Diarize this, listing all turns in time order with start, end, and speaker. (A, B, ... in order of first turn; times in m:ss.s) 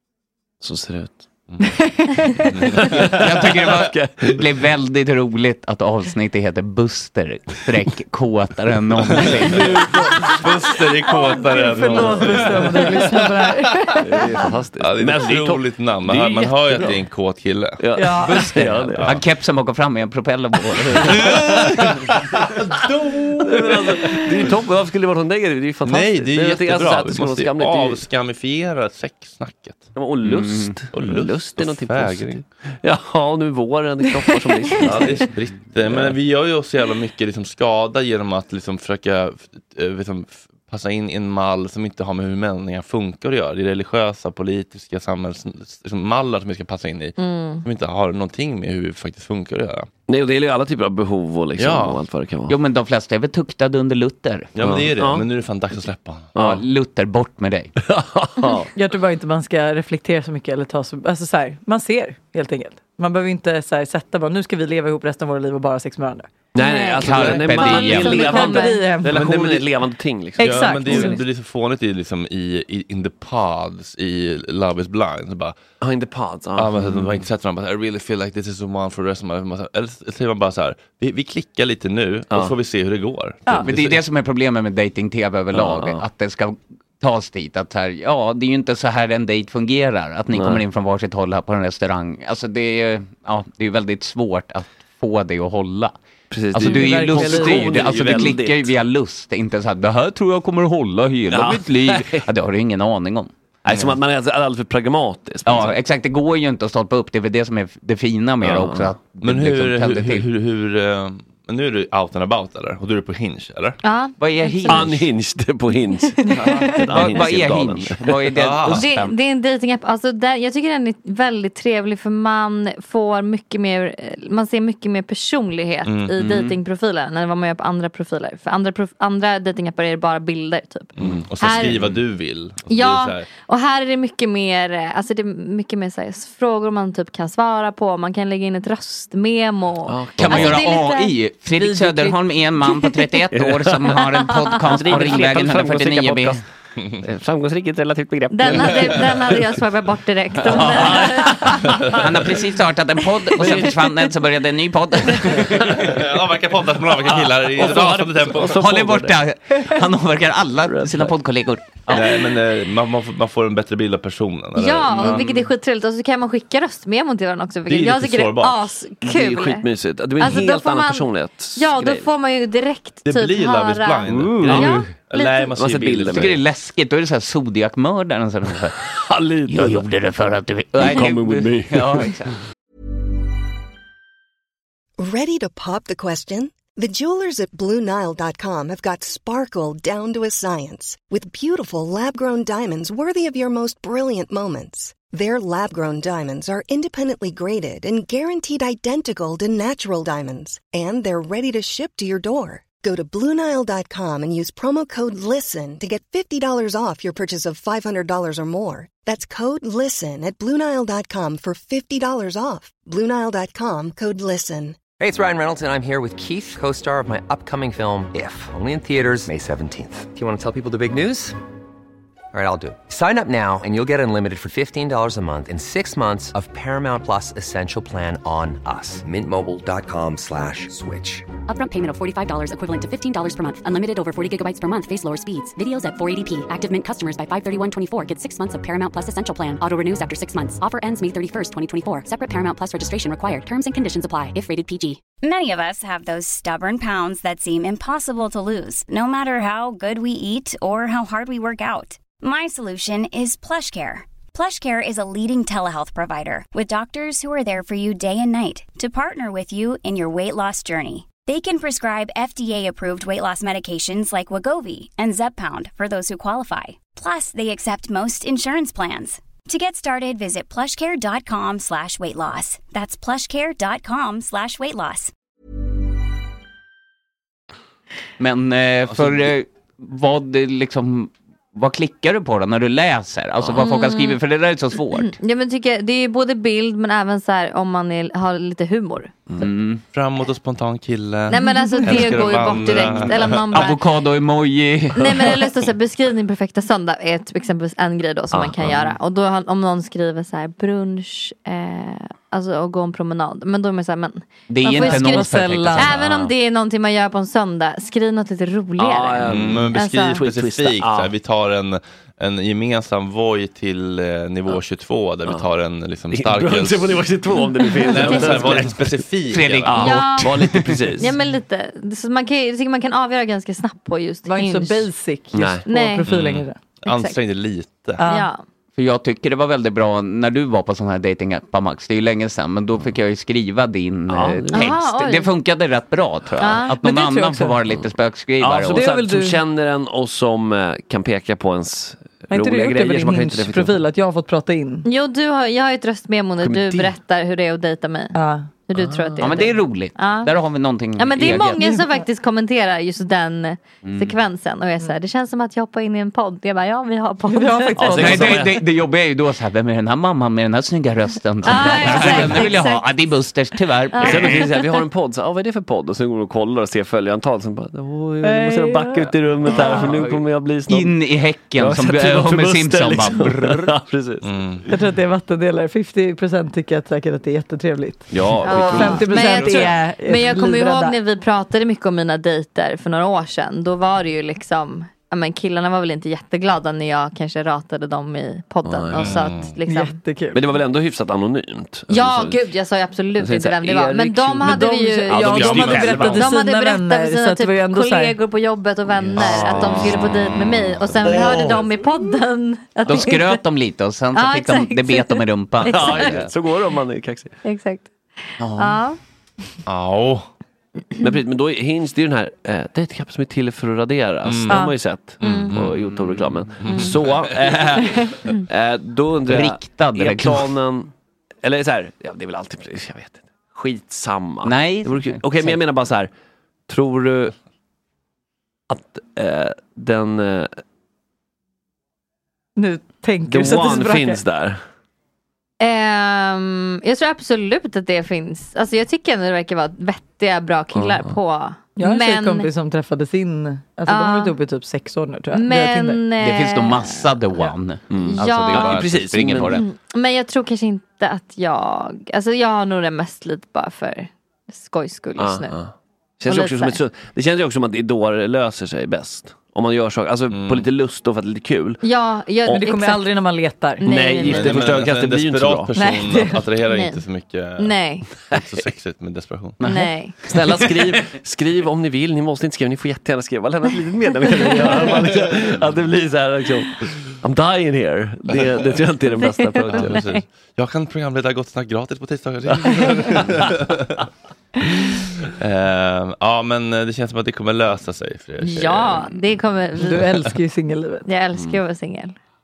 0:00.6-0:01.2 A
0:01.6-0:02.5 B
0:02.5-0:03.2 C
0:02.6-0:04.6 A
0:03.1-0:09.7 D
0:09.0-0:10.4 A
0:10.2-0:14.0 C
0:11.2-0:14.0 B
0:11.8-0:12.6 A
0:14.0-0:17.1 A
0:14.8-0:19.2 C
0:17.8-0:19.2 A
0:18.0-0:18.5 B
0:18.6-0:21.2 D
0:20.8-0:21.9 A
0:21.1-0:24.5 C
0:23.4-0:28.0 A
0:25.8-0:29.9 C
0:29.9-0:36.2 A
0:30.2-0:30.8 D
0:30.9-0:32.4 C
0:34.8-0:49.9 C
0:47.2-0:47.6 E
0:50.1-0:52.6 A
0:51.6-0:52.0 C
0:52.5-0:54.5 D
0:54.5-0:56.3 C
0:54.6-0:55.3 A
0:56.3-0:56.6 A
0:56.4-0:57.7 D
0:57.8-0:58.7 A
0:58.7-1:06.3 B
1:06.5-1:11.2 A
1:06.6-1:08.8 E
1:07.0-1:08.3 D
1:08.0-1:09.2 B
1:09.0-1:09.6 C
1:10.4-1:11.2 B
1:10.4-1:15.6 C
1:15.8-1:17.2 A
1:16.6-1:24.0 C
1:23.6-1:36.0 D
1:25.5-1:26.0 A
1:30.3-1:30.6 A
1:36.3-1:38.8 A
1:36.5-1:43.3 D
1:36.6-1:37.8 B
1:41.3-1:42.3 A
1:43.6-1:45.8 A
1:45.4-1:50.3 D
1:48.4-1:49.0 A
1:49.2-1:53.8 C
1:53.8-1:54.9 E
1:54.2-1:55.1 D
1:54.6-1:58.3 A
1:56.3-1:59.2 D
1:58.3-1:58.9 C
1:58.7-2:11.8 E
2:05.8-2:06.3 C
2:11.0-2:13.3 C
2:11.0-2:12.0 A
2:12.7-2:21.1 E
2:19.9-2:20.8 A
2:20.2-2:26.4 D
2:21.6-2:22.1 B
2:23.3-2:26.4 A
2:27.0-2:29.5 A
2:28.3-2:31.7 E
2:30.4-2:32.3 A
2:30.5-2:31.3 D
2:31.9-2:35.7 D
2:33.3-2:33.9 A
2:35.1-2:36.0 A
2:35.9-2:38.6 C
2:37.0-2:39.2 A
2:38.5-2:42.2 D
2:40.6-2:41.1 A
2:41.9-2:45.2 C
2:44.6-2:49.7 E
2:44.9-2:45.4 A
2:47.7-2:48.7 C
2:49.0-2:52.1 A
2:50.2-2:55.5 E
2:53.0-2:56.3 C
2:54.1-2:54.9 A
2:55.6-2:56.4 A
2:56.1-2:58.8 D
2:58.6-2:59.8 A
2:59.5-3:02.4 D
3:00.7-3:02.1 A
3:05.0-3:34.8 F
3:35.0-3:41.4 G
3:42.3-3:51.3 G
3:51.5-4:05.0 H
4:05.2-4:35.1 I
4:38.2-4:45.2 D
4:38.9-4:39.3 A
4:43.6-4:44.2 E
4:45.0-4:49.1 E
4:49.4-4:49.8 D
4:49.9-4:53.7 C
4:51.3-4:53.8 E
4:53.4-4:55.2 D
4:55.0-5:10.2 E
4:55.0-4:55.3 A
4:58.3-4:59.0 A
5:04.5-5:06.3 D
5:04.6-5:05.9 B
5:08.8-5:11.1 A
5:09.2-5:17.0 C
5:16.1-5:18.9 A
5:17.8-5:20.0 C
5:19.3-5:20.8 D
5:19.6-5:21.2 A
5:19.8-5:20.3 E
5:20.9-5:24.9 E
5:24.2-5:26.6 B
5:25.3-5:25.6 A
5:25.6-5:26.1 E
5:26.0-5:28.0 C
5:26.8-5:27.2 E
5:28.0-5:28.3 B
5:28.0-5:28.4 E
5:28.8-5:38.9 D
5:34.1-5:34.8 A
5:34.5-5:35.3 E
5:36.4-5:36.7 E
5:36.8-5:37.6 B
5:38.4-5:43.8 A
5:38.7-5:39.4 B
5:42.3-5:44.8 B
5:44.8-5:50.3 E
5:46.4-5:46.9 A
5:48.1-5:48.5 B
5:48.7-5:49.6 A
5:49.2-5:51.6 D
5:51.0-5:58.2 E
5:53.8-5:54.2 D
5:57.3-5:58.4 B
5:57.8-5:58.6 A
5:57.9-6:04.6 D
6:01.4-6:03.1 E
6:01.6-6:02.5 A
6:03.9-6:04.5 E
6:04.0-6:14.7 A
6:08.2-6:09.9 B
6:09.5-6:09.9 E
6:09.6-6:13.7 D
6:14.2-6:14.6 C
6:14.7-6:21.0 B
6:18.1-6:19.4 A
6:18.4-6:30.0 E
6:18.4-6:19.8 D
6:28.6-6:29.2 A
6:28.9-6:29.5 C
6:29.6-6:30.4 B
6:30.3-6:32.4 A
6:31.9-6:43.4 E
6:33.2-6:34.6 A
6:34.4-6:38.2 B
6:35.1-6:35.8 D
6:35.2-6:36.2 C
6:39.1-6:40.3 A
6:39.5-6:40.2 C
6:40.8-6:41.5 A
6:42.9-6:46.2 D
6:44.1-6:46.1 E
6:45.6-6:47.4 A
6:47.4-6:49.0 E
6:48.4-6:48.8 D
6:49.6-6:50.3 C
6:51.0-7:00.9 A
6:54.2-6:54.6 C
6:55.2-6:56.0 C
6:55.2-6:55.5 E
6:56.6-6:57.0 C
6:56.6-6:56.9 E
6:59.2-7:00.5 D
7:01.4-7:06.1 A
7:04.4-7:05.6 D
7:06.7-7:07.3 A
7:08.7-7:10.5 A
7:12.6-7:14.2 B
7:13.3-7:14.6 A
7:15.6-7:22.5 E
7:20.7-7:21.2 A
7:21.8-7:26.0 B
7:23.9-7:24.3 E
7:25.3-7:35.6 E
7:26.2-7:29.6 D
7:27.9-7:29.6 A
7:35.2-7:41.8 A
7:36.2-7:36.8 E
7:40.3-7:40.7 C
7:41.8-7:44.6 E
7:42.5-7:43.8 B
7:43.8-7:45.7 A
7:44.2-7:49.6 C
7:45.7-7:46.4 B
7:46.7-7:47.0 E
7:47.6-7:48.1 E
7:49.6-7:49.9 D
7:49.6-7:50.2 E
7:50.2-8:00.0 A
7:59.2-8:00.2 E
7:59.7-8:04.0 C
8:02.5-8:03.6 A
8:05.3-8:09.1 C
8:08.4-8:10.1 E
8:09.8-8:11.1 B
8:11.0-8:12.2 E
8:11.3-8:11.6 A